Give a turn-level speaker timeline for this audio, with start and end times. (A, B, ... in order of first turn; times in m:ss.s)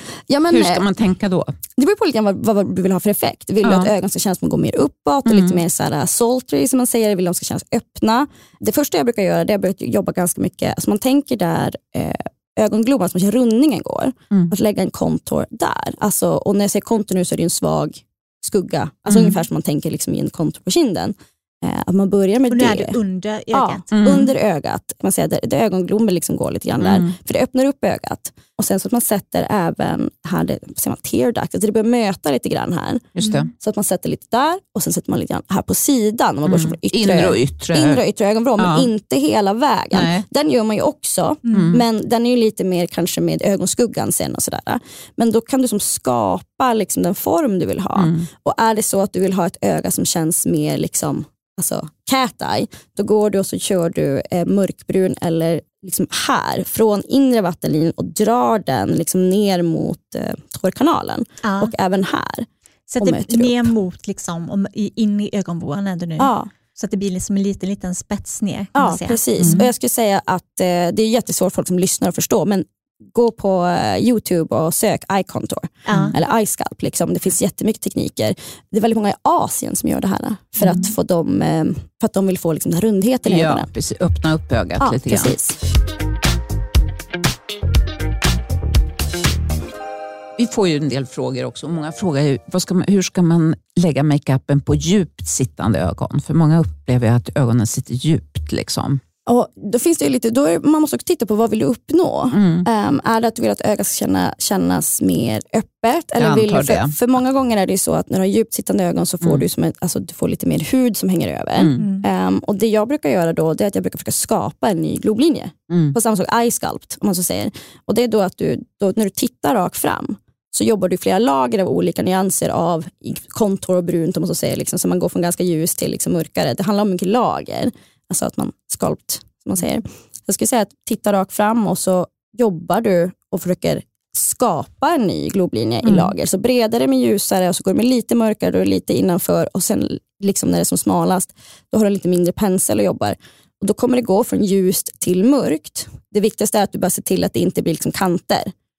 0:00.3-0:00.9 A
0:00.5-0:01.5 B
0:01.8-0:23.0 A
0:03.6-0:03.9 B
0:05.3-0:05.6 B
0:19.1-0:19.4 B
0:22.5-0:24.2 C
0:23.5-1:02.5 A
0:23.9-0:24.3 B
0:26.8-0:27.1 B
0:33.2-0:33.5 B
0:33.2-0:33.5 C
0:36.5-0:38.0 B
0:38.6-0:38.9 B
0:39.9-0:40.2 B
0:41.5-0:41.8 C
0:41.5-0:41.8 B
0:48.0-0:48.3 B
1:01.4-1:01.7 C
1:02.9-1:09.7 C
1:03.0-1:03.7 A
1:06.2-1:06.5 A
1:08.8-1:23.7 A
1:15.9-1:16.2 C
1:15.9-1:16.2 B
1:20.6-1:20.9 B
1:23.3-1:25.4 B
1:24.8-1:25.6 A
1:30.4-1:39.0 B
1:39.3-2:28.5 A
1:42.3-1:42.7 B
1:46.2-1:47.0 B
1:51.6-1:51.9 B
1:51.8-1:52.1 C
1:55.7-1:56.0 B